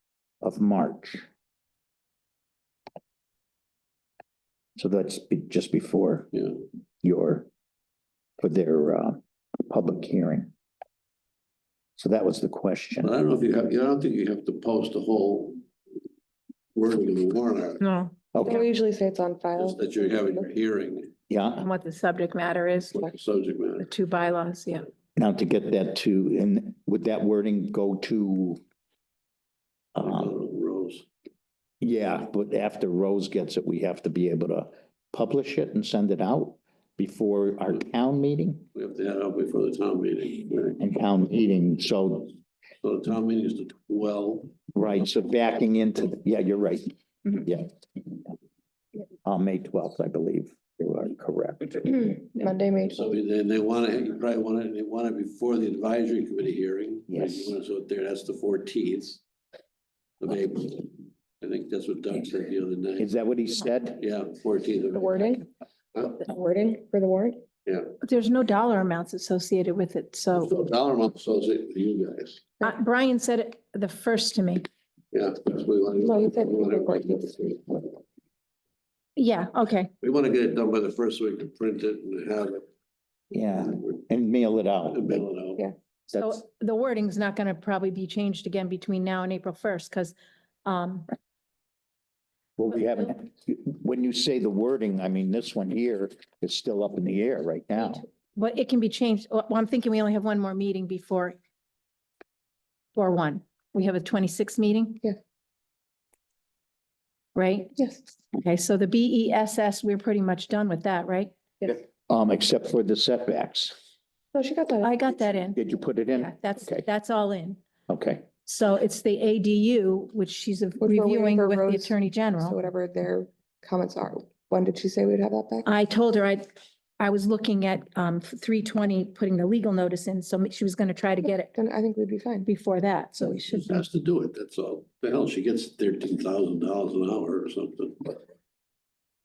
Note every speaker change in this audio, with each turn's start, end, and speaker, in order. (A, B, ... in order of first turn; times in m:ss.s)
0:00.4-0:01.2 A
0:04.8-0:06.3 A
0:07.0-0:07.5 A
0:08.4-0:10.5 A
0:12.0-0:13.1 A
0:13.0-0:15.6 B
0:16.8-0:17.8 B
0:17.8-0:18.5 C
0:18.3-0:18.6 A
0:18.4-0:20.5 D
0:19.6-0:21.1 B
0:21.3-0:21.7 A
0:21.6-0:23.1 C
0:22.9-0:23.9 B
0:23.8-0:24.9 C
0:25.2-0:28.6 A
0:29.9-0:30.3 A
0:30.0-0:31.0 B
0:31.8-0:38.7 A
0:38.8-0:40.8 B
0:40.8-0:42.4 A
0:42.8-0:44.5 B
0:44.7-0:47.7 A
0:49.2-0:52.1 A
0:52.0-0:53.2 D
0:52.9-0:59.2 B
0:57.1-0:57.5 A
1:00.2-1:03.1 B
1:03.0-1:04.0 A
1:04.0-1:06.2 B
1:04.9-1:05.4 D
1:06.2-1:07.4 D
1:07.7-1:07.9 B
1:08.0-1:10.5 C
1:10.3-1:12.5 B
1:12.6-1:14.7 C
1:15.1-1:17.1 B
1:16.0-1:17.9 D
1:19.2-1:19.9 C
1:20.0-1:22.7 B
1:23.3-1:25.2 A
1:23.5-1:23.8 B
1:24.9-1:25.7 B
1:26.1-1:30.1 C
1:30.6-1:31.1 C
1:32.6-1:38.0 A
1:38.4-1:41.4 C
1:42.9-1:45.0 C
1:47.4-1:47.8 C
1:48.3-1:51.4 C
1:51.7-1:53.8 A
1:54.3-1:55.2 D
1:54.8-1:55.6 C
1:55.6-1:56.8 A
1:56.2-1:57.6 C
1:57.9-1:58.3 A
1:58.4-2:02.6 C
2:00.8-2:05.7 D
2:05.6-2:06.4 C
2:07.0-2:11.6 C
2:11.5-2:12.5 D
2:12.4-2:13.8 C
2:13.7-2:18.2 B